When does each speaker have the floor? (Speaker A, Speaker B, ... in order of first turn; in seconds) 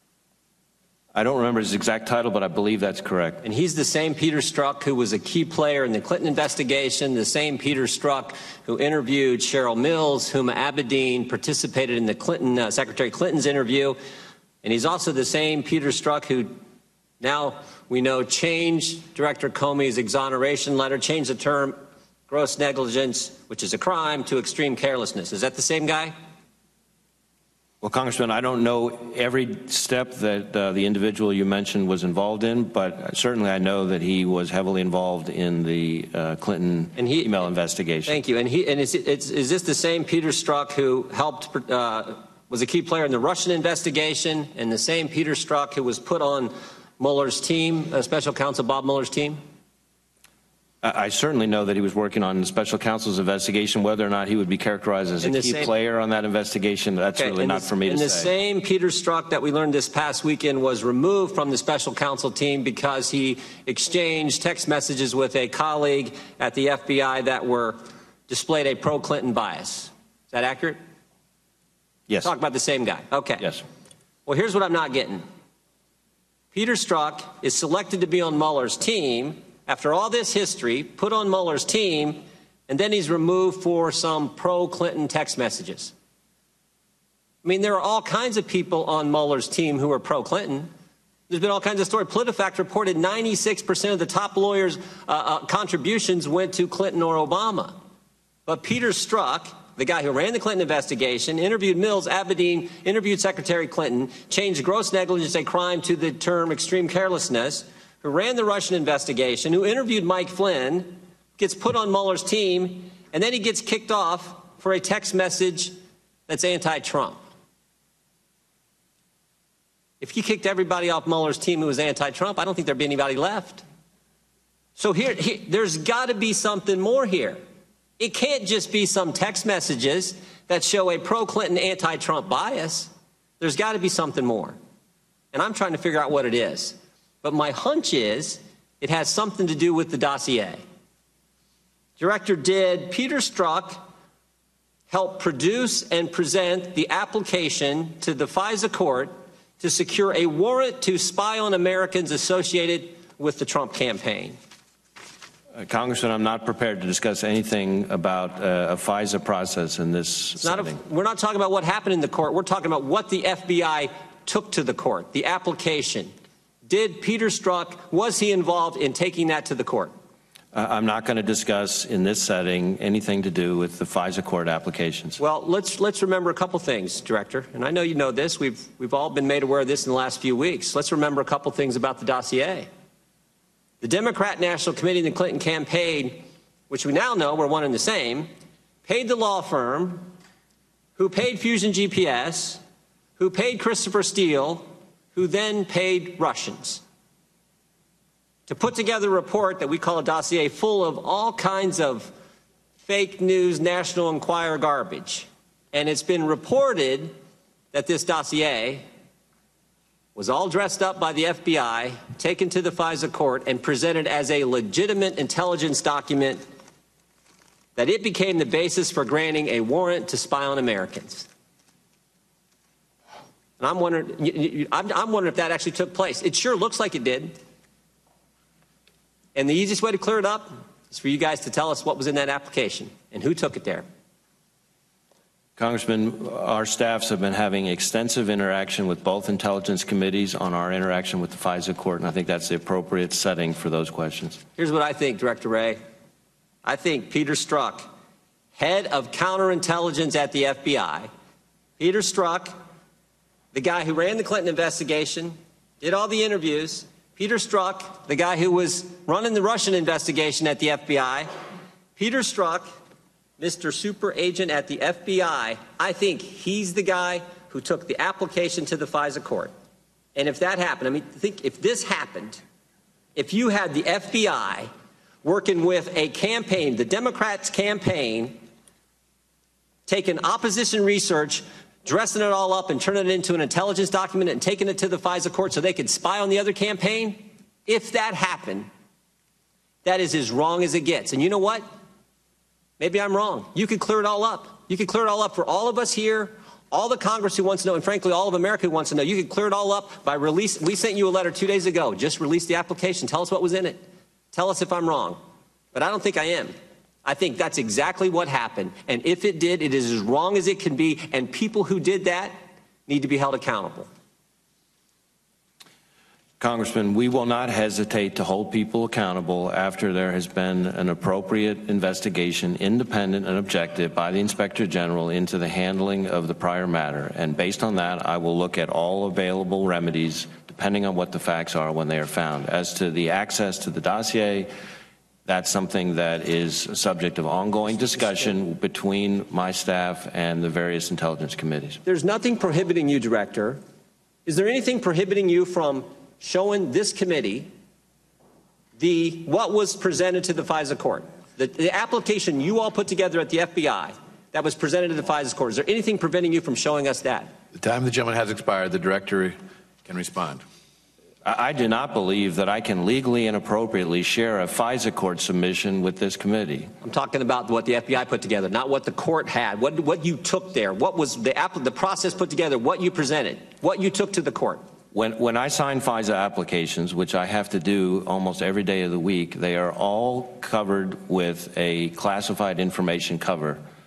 Speaker A: 1.1-3.4, 27.8-38.2, 50.8-58.3, 155.6-160.8, 170.5-175.2, 235.6-244.4, 316.4-334.5, 335.3-341.8, 361.2-366.7, 374.9-383.6
Speaker B: 3.4-14.0, 14.6-16.5, 17.2-21.8, 22.3-26.1, 37.0-37.3, 38.1-49.4, 55.2-55.7, 57.1-70.8, 72.2-73.5, 74.3-75.2, 76.5-85.9, 87.4-90.7, 91.3-97.8, 98.5-115.7, 116.3-117.2, 120.0-123.6, 124.8-127.4, 128.0-134.6, 135.3-140.6, 142.0-143.9, 144.9-154.4, 160.4-166.1, 166.7-169.9, 175.2-182.7, 183.8-188.3, 188.8-190.1, 191.0-192.6, 193.2-196.8, 198.5-202.1, 202.8-207.1, 207.7-208.8, 210.2-216.4, 217.8-221.3, 223.6-227.3, 229.3-233.8, 244.6-245.8, 246.7-247.9, 248.6-251.1, 251.8-252.6, 253.5-261.3, 262.0-262.7, 263.4-269.5, 270.1-272.4, 273.2-274.7, 275.2-278.4, 279.9-288.7, 289.9-291.6, 292.8-303.8, 304.3-305.2, 305.7-306.5, 307.1-312.4, 312.9-313.9, 341.9-343.6, 344.3-347.5, 348.8-357.3, 366.8-374.6
Speaker C: 357.5-360.4